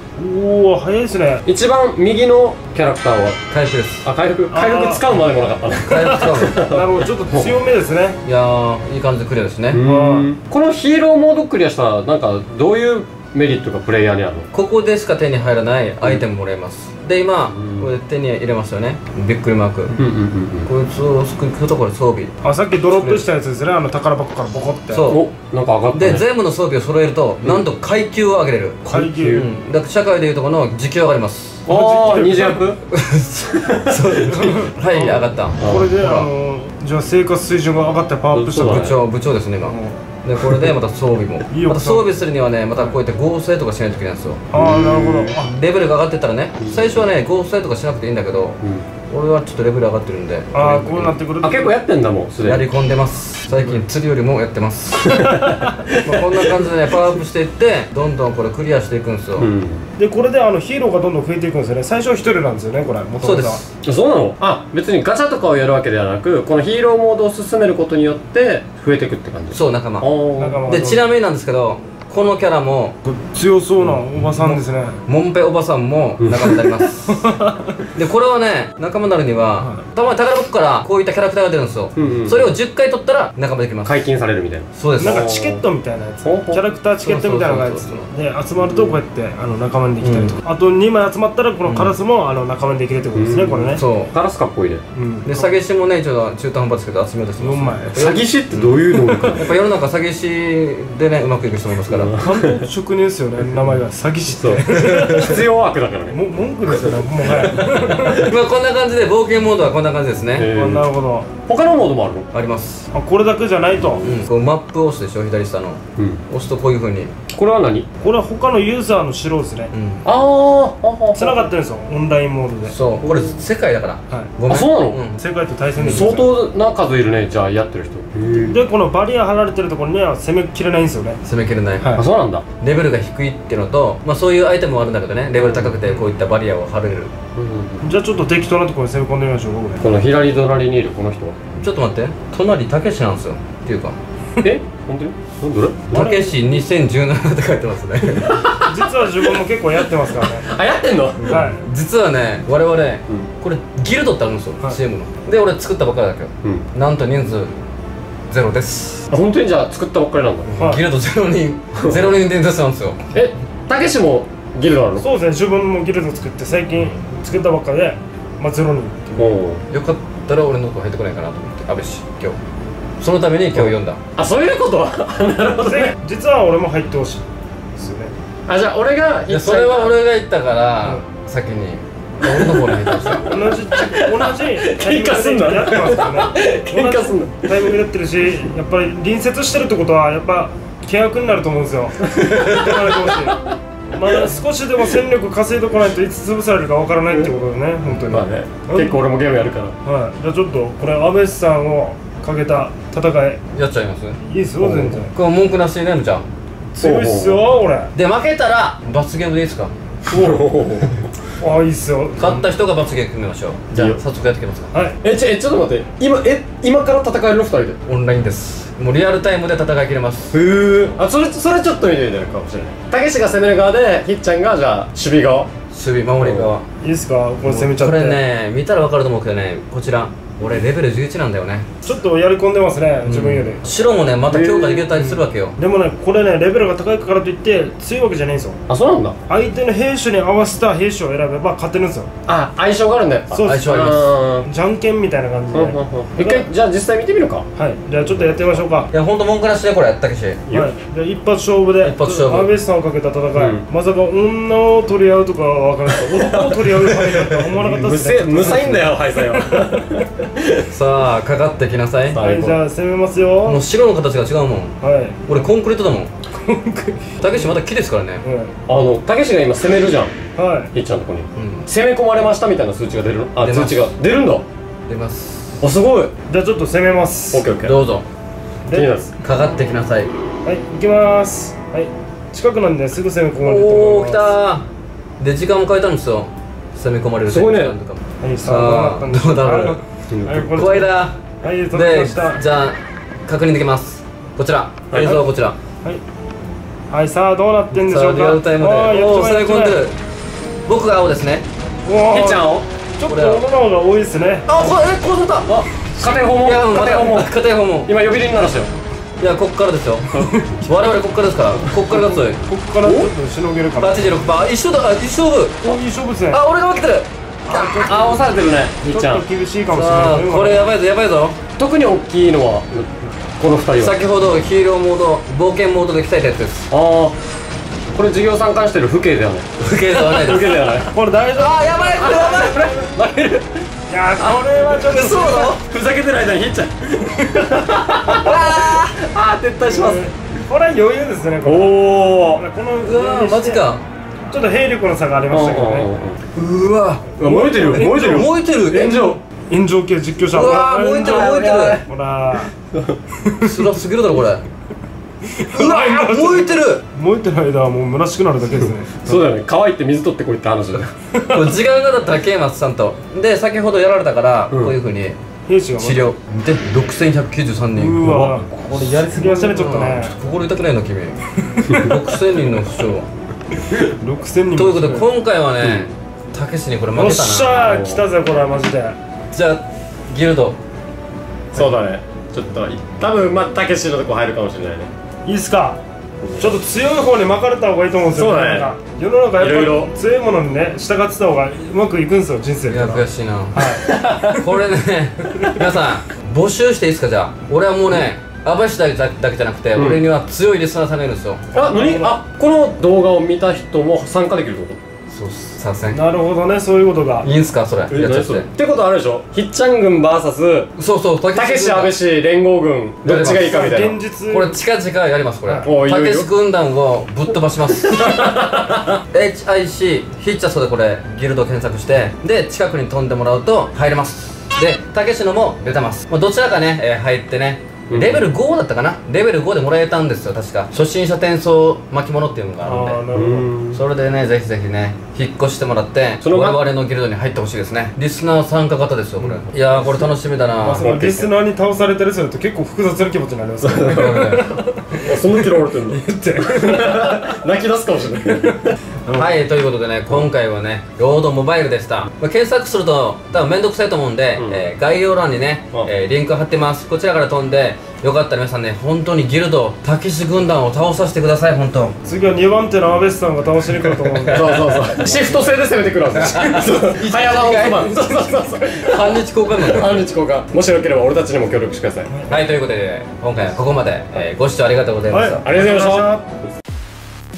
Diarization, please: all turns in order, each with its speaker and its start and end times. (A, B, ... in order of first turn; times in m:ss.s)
0:00.2-0:01.4 A
0:01.5-0:03.4 B
0:03.5-0:04.1 C
0:04.0-0:07.5 B
0:04.5-0:05.0 A
0:05.8-0:06.6 C
0:06.4-0:08.2 A
0:08.2-0:09.8 C
0:09.7-0:14.5 B
0:09.8-0:10.3 A
0:14.5-0:20.0 C
0:17.5-0:17.9 B
0:20.0-0:20.7 B
0:20.6-0:22.3 C
0:22.4-0:25.1 A
0:22.9-0:23.2 C
0:24.9-0:25.2 C
0:25.1-0:26.2 B
0:25.9-0:31.7 C
0:27.4-0:27.7 B
0:28.8-0:29.5 A
0:28.9-0:29.5 B
0:31.7-0:32.7 A
0:31.7-0:32.8 B
0:32.9-0:36.3 C
0:33.6-0:34.1 B
0:34.3-0:38.9 A
0:35.6-0:35.9 B
0:38.3-0:39.0 B
0:38.6-0:44.4 C
0:39.6-0:40.0 A
0:41.5-0:42.2 A
0:44.5-0:45.5 A
0:44.5-0:45.4 B
0:45.4-0:51.1 C
0:46.6-0:46.9 B
0:50.5-0:51.8 A
0:51.4-0:52.7 B
0:52.4-0:55.4 C
0:55.0-0:56.7 B
0:55.9-0:59.5 C
0:59.4-0:59.9 B
1:00.0-1:03.6 A
1:03.2-1:03.6 C
1:03.8-1:10.7 B
1:09.5-1:10.1 C
1:10.4-1:11.0 A
1:10.7-1:13.0 C
1:13.0-1:15.0 A
1:13.8-1:17.3 C
1:16.2-1:16.6 B
1:17.1-1:17.7 A
1:17.9-1:24.0 C
1:22.0-1:22.5 B
1:23.8-1:25.6 B
1:24.7-1:25.2 C
1:25.0-1:33.8 A
1:26.2-1:26.6 B
1:27.0-1:28.1 C
1:30.0-1:30.4 C
1:31.7-1:31.9 C
1:33.2-1:34.8 B
1:33.8-1:34.1 C
1:35.0-1:35.6 A
1:35.2-1:42.1 C
1:37.4-1:38.0 A
1:38.0-1:39.5 B
1:41.9-1:42.6 B
1:42.2-1:45.4 A
1:44.3-1:46.2 B
1:44.7-1:45.3 C
1:46.1-1:48.3 A
1:47.3-1:48.0 B
1:47.8-1:50.5 C
1:50.4-1:50.9 B
1:50.5-1:51.3 A
1:51.5-1:52.3 B
1:52.3-1:52.9 C
1:52.9-1:54.1 A
1:54.0-1:57.1 C
1:56.0-1:56.2 B
1:57.3-1:57.9 B
1:58.0-1:59.7 A
1:59.7-2:00.1 C
2:00.0-2:01.5 B
2:01.2-2:02.8 A
2:02.7-2:05.2 C
2:03.0-2:03.3 B
2:04.5-2:05.0 B
2:05.1-2:06.3 A
2:05.8-2:08.6 B
2:05.8-2:06.2 C
2:08.4-2:11.2 A
2:11.2-2:12.0 C
2:12.0-2:12.4 B
2:12.6-2:17.1 C
2:15.4-2:15.8 B
2:17.4-2:17.8 B
2:17.8-2:19.9 A
2:19.8-2:21.4 B
2:21.6-2:24.0 C
2:24.4-2:25.9 B
2:25.9-2:26.4 A
2:25.9-2:28.4 C
2:28.2-2:29.2 B
2:28.6-2:30.5 A
2:30.0-2:31.4 B
2:31.3-2:31.6 A
2:31.3-2:37.5 C
2:38.3-2:39.1 C
2:39.1-2:40.5 B
2:40.5-2:43.1 C
2:40.6-2:40.8 A
2:41.8-2:42.1 B
2:43.1-2:45.1 B
2:45.0-2:49.4 A
2:49.2-2:49.6 B
2:49.7-2:52.4 C
2:53.0-2:54.0 C
2:53.5-2:56.0 B
2:55.6-2:57.2 A
2:57.8-2:58.1 A
2:58.5-3:00.0 B
2:59.3-3:03.4 C
3:02.2-3:07.8 B
3:03.2-3:19.0 A
3:12.0-3:13.3 B
3:18.1-3:19.8 B
3:19.8-3:23.4 A
3:23.6-3:26.2 C
3:24.2-3:25.1 A
3:26.8-3:27.9 A
3:26.8-3:27.4 B
3:28.0-3:29.7 C
3:30.1-3:31.0 B
3:30.1-3:30.5 A
3:31.4-3:32.5 A
3:32.2-3:34.7 C
3:33.7-3:34.0 B
3:34.7-3:35.0 A
3:35.0-3:37.8 B
3:37.9-3:40.4 C
3:40.3-3:45.5 B
3:45.7-3:46.7 C
3:46.2-3:46.5 B
3:46.8-3:48.2 A
3:47.4-3:51.7 C
3:51.8-3:53.6 A
3:53.1-3:55.6 C
3:54.3-3:54.9 B
3:54.9-3:58.6 A
3:58.7-3:59.2 B
3:59.3-4:02.1 A
4:02.3-4:04.5 B
4:03.3-4:06.5 A
4:03.5-4:04.1 C
4:05.5-4:07.5 B
4:07.6-4:08.9 A
4:08.2-4:08.6 B
4:08.9-4:10.4 C
4:10.5-4:20.0 A
4:11.8-4:12.5 C
4:13.4-4:13.6 B
4:16.0-4:20.7 B
4:20.7-4:22.2 C
4:22.1-4:22.6 B
4:22.2-4:23.6 A
4:23.4-4:24.8 C
4:24.8-4:25.4 A
4:25.3-4:26.1 C
4:26.3-4:27.5 A
4:27.2-4:28.2 C
4:28.2-4:28.6 A
4:28.7-4:30.2 B
4:30.4-4:30.7 A
4:30.7-4:34.4 B
4:31.4-4:31.7 C
4:33.4-4:33.9 C
4:34.9-4:35.6 C
4:35.6-4:36.1 B
4:36.3-4:37.5 A
4:37.3-4:37.8 B
4:37.6-4:38.0 C
4:38.7-4:38.9 A
4:38.7-4:39.1 B
4:39.2-4:40.1 C
4:40.4-4:44.4 A
4:43.4-4:44.7 C
4:45.2-4:49.8 C
4:47.3-4:47.8 B
4:48.2-4:50.9 A
4:50.1-4:50.5 B
4:50.5-4:51.2 C
4:51.4-4:52.4 A
4:51.7-4:55.6 C
4:54.9-4:55.2 B
4:56.9-4:59.8 A
4:57.7-5:00.0 C
5:00.7-5:01.4 C
5:01.8-5:04.5 A
5:02.1-5:02.7 B
5:03.1-5:03.4 C
5:04.5-5:07.9 C
5:05.5-5:07.4 B
5:07.9-5:08.7 B
5:09.2-5:12.4 C
5:10.2-5:10.5 A
5:11.9-5:14.0 A
5:12.8-5:13.1 B
5:13.8-5:15.8 C
5:15.6-5:16.4 A
5:16.3-5:17.1 C
5:17.5-5:18.3 A
5:17.5-5:19.2 B
5:18.8-5:20.6 A
5:19.7-5:21.4 C
5:21.6-5:24.0 B
5:23.8-5:26.7 C
5:26.7-5:27.2 B
5:27.9-5:30.9 B
5:29.6-5:30.6 C
5:30.6-5:32.8 A
5:31.4-5:33.0 C
5:32.1-5:33.5 B
5:33.9-5:35.6 A
5:34.2-5:35.6 C
5:35.6-5:40.0 B
5:38.0-5:39.0 C
5:39.6-5:43.7 A
5:41.4-5:42.4 B
5:42.8-5:43.8 C
5:44.3-5:45.9 A
5:45.3-5:46.2 B
5:46.4-5:47.1 C
5:47.2-5:49.2 B
5:47.2-5:52.5 A
5:47.8-5:49.0 C
5:50.3-5:51.8 C
5:51.0-5:51.8 B
5:53.3-5:53.6 A
5:53.4-5:54.4 C
5:55.3-5:59.3 A
5:55.4-5:56.8 C
5:59.0-6:00.9 B
6:01.1-6:01.6 A
6:01.3-6:05.2 C
6:05.5-6:06.1 A
6:05.8-6:11.2 C
6:07.8-6:10.2 A
6:08.1-6:08.4 B
6:11.5-6:12.2 A
6:11.7-6:13.1 C
6:13.7-6:15.1 A
6:14.5-6:17.8 C
6:15.6-6:15.9 B
6:16.9-6:19.0 A
6:17.6-6:18.1 B
6:19.3-6:20.6 C
6:21.5-6:24.9 B
6:25.2-6:25.8 A
6:26.2-6:26.6 B
6:26.4-6:34.4 A
6:28.1-6:28.7 B
6:29.4-6:29.9 B
6:32.7-6:41.4 C
6:33.9-6:34.3 B
6:39.8-6:40.0 B
6:41.5-6:44.8 B
6:41.6-6:42.2 A
6:45.1-6:46.0 C
6:45.9-6:47.3 A
6:47.2-6:48.5 C
6:47.9-6:50.8 B
6:50.8-6:52.0 C
6:51.3-6:54.0 B
6:53.0-6:53.8 C
6:53.2-6:54.6 A
6:54.3-6:58.4 C
6:55.6-6:56.3 B
6:57.8-6:59.0 B
6:59.1-7:13.0 C
7:07.9-7:08.3 B
7:12.6-7:13.5 A
7:13.1-7:13.8 B
7:13.7-7:20.9 C
7:16.2-7:16.7 B
7:20.6-7:27.3 A
7:20.8-7:21.3 B
7:23.6-7:24.3 B
7:23.9-7:24.5 C
7:25.0-7:28.8 B
7:29.1-7:29.4 A
7:29.1-7:42.0 C
7:34.4-7:34.6 B
7:42.0-7:44.8 A
7:44.3-7:52.1 B
7:46.2-7:50.0 C
7:52.1-7:52.4 A
7:52.3-7:55.4 C
7:55.1-7:56.3 A
7:55.4-7:56.1 B